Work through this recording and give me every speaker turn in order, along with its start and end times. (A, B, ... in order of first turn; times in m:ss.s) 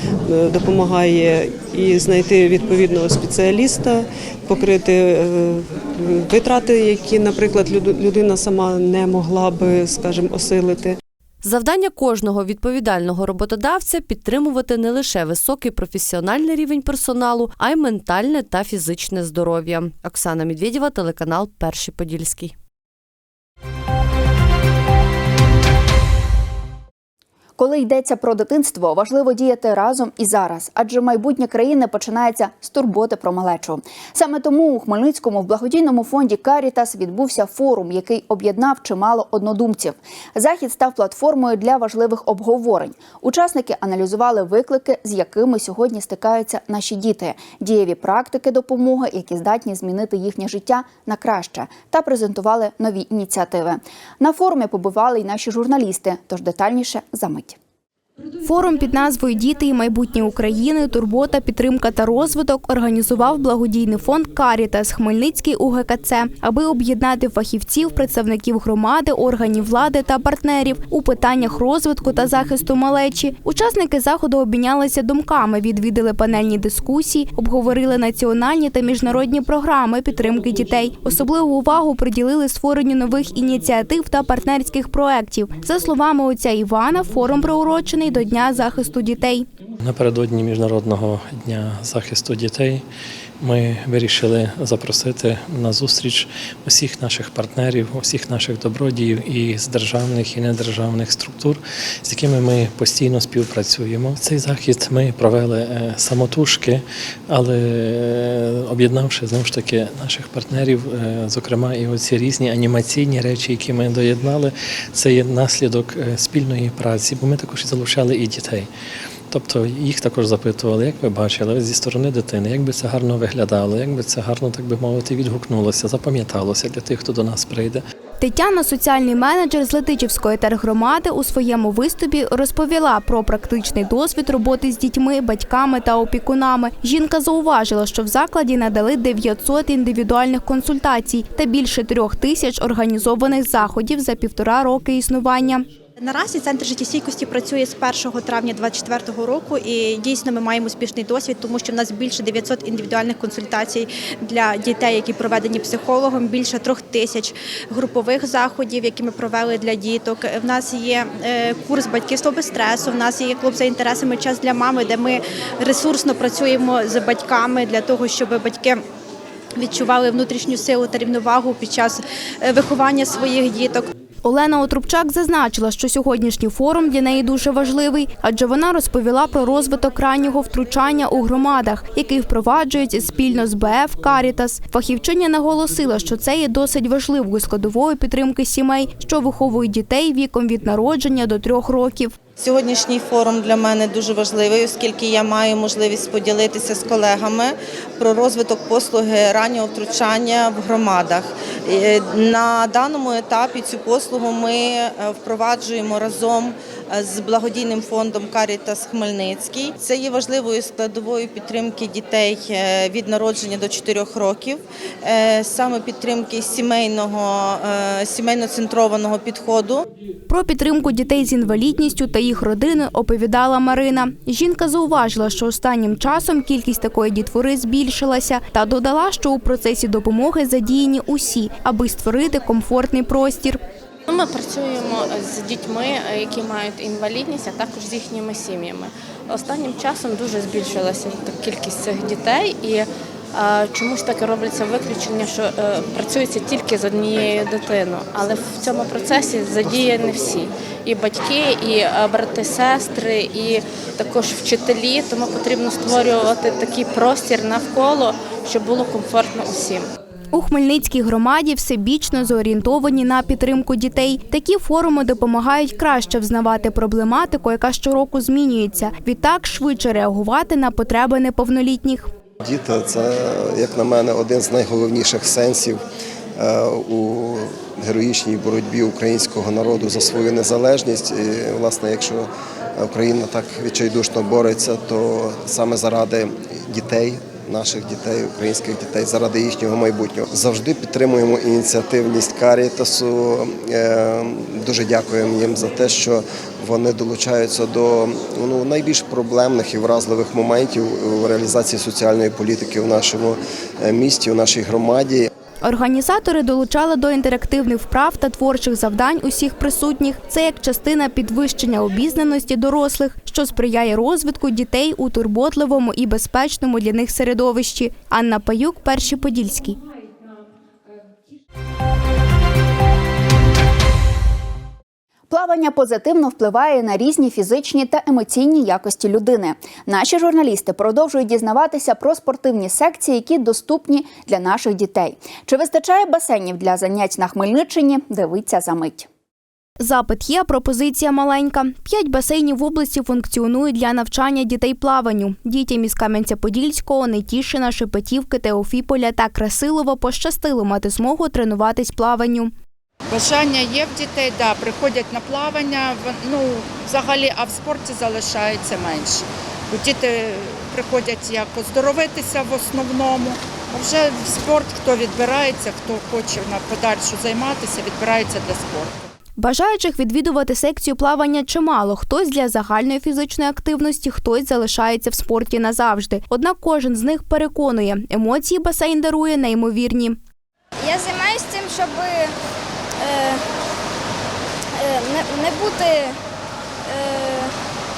0:00.3-0:04.9 A
0:06.1-0:10.9 A
0:11.4-0:22.5 B
0:27.6-0:57.6 C
0:58.4-1:29.4 D
1:29.8-1:32.8 E
1:33.4-1:58.7 E
1:59.3-2:07.8 E
2:08.2-2:25.7 D
2:26.0-2:48.8 F
2:49.6-2:53.8 F
2:54.2-3:12.1 D
3:12.4-3:39.8 G
3:40.3-3:53.6 D
3:54.1-4:19.9 H
4:20.3-4:32.1 D
4:32.4-4:33.1 I
4:33.6-4:35.8 I
4:36.4-4:37.3 I
4:37.9-4:42.2 I
4:42.8-4:54.1 I
4:54.6-5:03.3 I
5:03.8-5:05.3 I
5:05.6-5:19.8 D
5:25.3-5:39.1 C
5:39.8-5:52.5 D
5:53.1-6:09.1 J
6:09.4-6:20.2 D
6:20.8-6:22.3 K
6:23.0-6:23.4 K
6:24.8-6:26.1 K
6:26.9-6:27.5 K